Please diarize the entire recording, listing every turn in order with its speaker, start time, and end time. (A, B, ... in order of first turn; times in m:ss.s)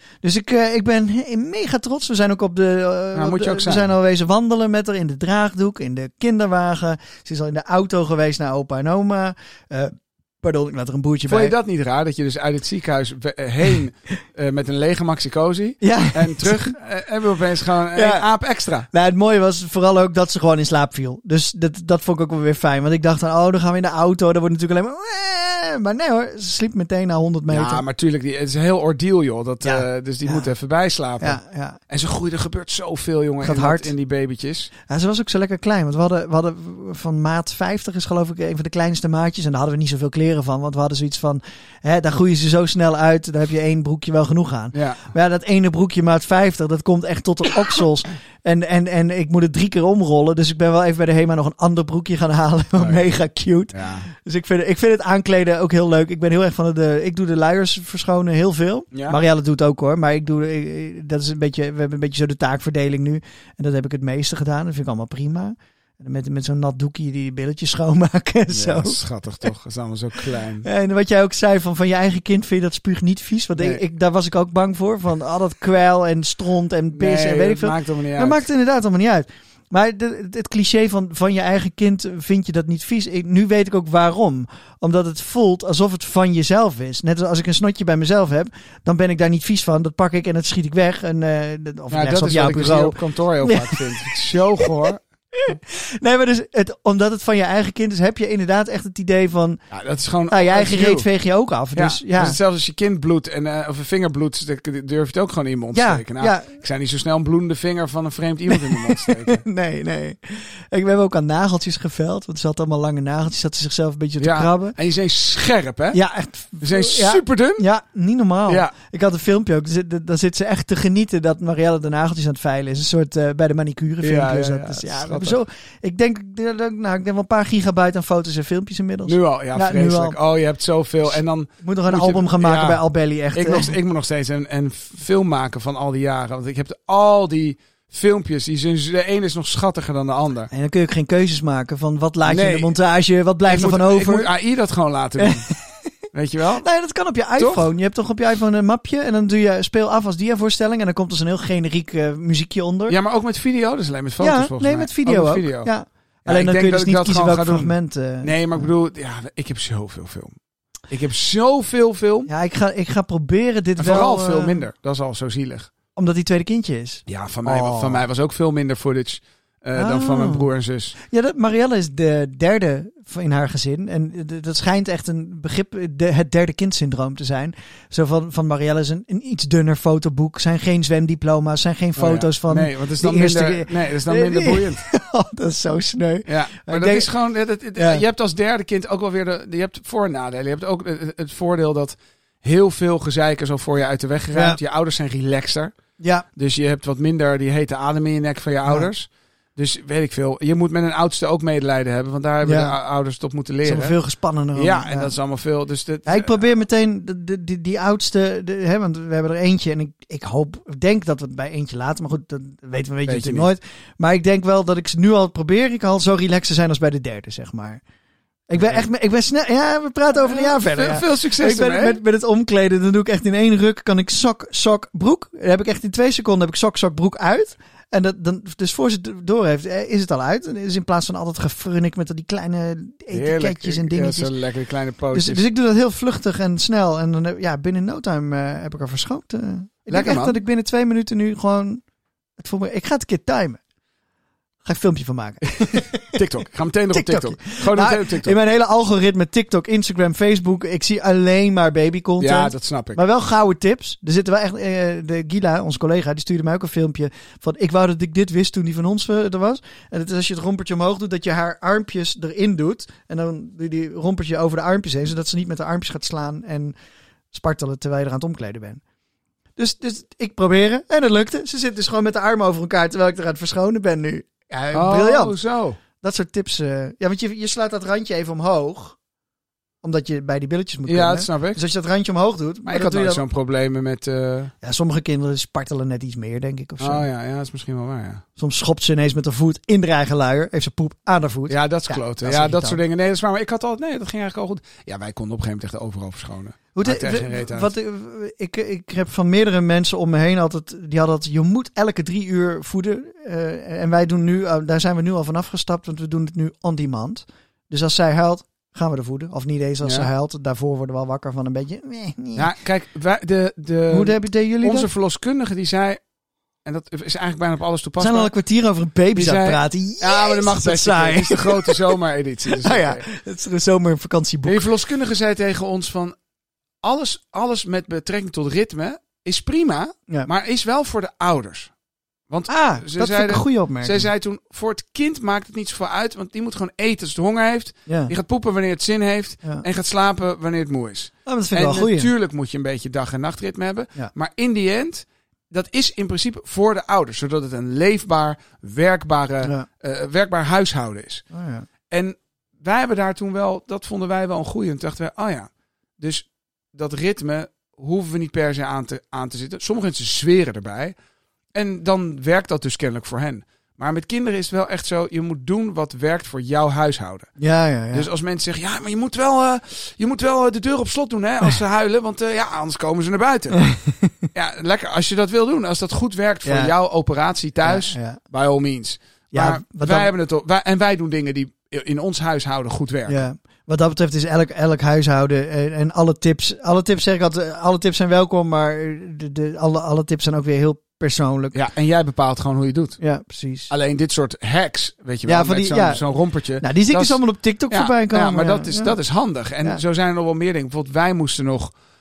0:00.2-0:11.6 A
0:03.1-0:03.9 B
0:11.3-0:18.9 B
0:15.8-0:16.7 A
0:17.9-0:18.3 A
0:18.9-0:27.8 A
0:27.5-0:34.7 B
0:29.6-0:30.5 A
0:31.2-0:31.8 A
0:33.4-0:33.9 A
0:34.9-1:09.0 A
0:44.7-0:45.1 B
0:52.8-0:53.1 B
0:53.7-0:54.1 B
1:08.5-1:10.7 B
1:10.6-1:39.6 A
1:13.6-1:13.8 B
1:16.9-1:18.4 B
1:31.9-1:35.0 B
1:39.7-1:41.1 B
1:40.3-1:42.4 A
1:41.7-1:49.4 B
1:45.7-1:46.5 A
1:48.5-1:54.7 A
1:54.2-1:56.0 B
1:55.9-2:10.2 A
1:56.6-1:57.6 B
2:04.0-2:05.4 B
2:09.1-2:12.8 B
2:11.6-2:13.7 A
2:13.3-2:20.5 B
2:20.5-2:24.3 A
2:22.2-2:22.7 B
2:23.5-2:25.4 B
2:25.2-2:25.9 A
2:26.1-2:26.6 B
2:26.6-2:33.0 A
2:27.4-2:27.7 B
2:32.9-2:35.7 B
2:34.2-2:38.7 A
2:36.2-2:40.3 B
2:40.9-2:42.3 B
2:42.3-2:44.6 A
2:43.8-2:45.7 B
2:46.0-2:48.0 A
2:47.1-2:50.9 B
2:49.7-2:50.5 A
2:51.0-3:07.1 A
3:02.0-3:04.8 B
3:06.2-3:15.8 B
3:07.8-3:08.0 A
3:14.3-3:14.6 A
3:16.0-3:16.2 A
3:16.4-3:24.0 B
3:22.4-3:22.8 A
3:23.6-3:25.1 A
3:24.6-3:26.4 B
3:26.1-3:37.8 A
3:33.1-3:33.5 B
3:38.5-3:54.3 A
3:38.6-3:38.8 B
3:40.2-3:42.0 B
3:53.1-3:55.4 B
3:55.1-4:01.8 A
3:59.9-4:00.4 B
4:02.4-4:03.6 A
4:04.6-4:06.2 A
4:05.6-4:08.4 B
4:06.9-4:26.7 A
4:12.2-4:13.0 B
4:27.3-4:28.8 A
4:29.6-4:35.4 A
4:34.7-4:35.8 B
4:36.0-4:39.0 A
4:39.8-4:43.2 A
4:40.9-4:41.6 B
4:42.7-4:44.5 B
4:44.6-4:47.0 A
4:46.8-4:48.2 B
4:48.4-4:52.8 A
4:51.5-4:57.7 B
4:56.7-5:12.5 A
5:09.8-5:10.1 B
5:12.4-5:16.0 B
5:13.9-5:14.9 A
5:16.6-5:18.3 B
5:18.0-5:22.0 A
5:19.2-5:23.0 B
5:22.5-5:24.7 A
5:24.4-5:26.2 B
5:26.8-5:31.7 B
5:32.3-5:51.2 B
5:32.5-5:34.1 A
5:37.9-5:38.1 A
5:41.2-5:42.1 A
5:51.3-5:51.7 A
5:51.9-6:01.0 B
6:01.5-6:07.3 B
6:07.4-6:08.1 A
6:07.9-6:13.6 B
6:13.5-6:14.3 A
6:14.3-6:23.2 B
6:16.4-6:16.7 A
6:17.6-6:18.2 A
6:19.3-6:20.1 A
6:23.1-6:31.6 A
6:31.5-6:33.0 B
6:33.0-6:33.7 A
6:33.7-6:41.7 B
6:35.2-6:36.0 A
6:36.6-6:38.9 A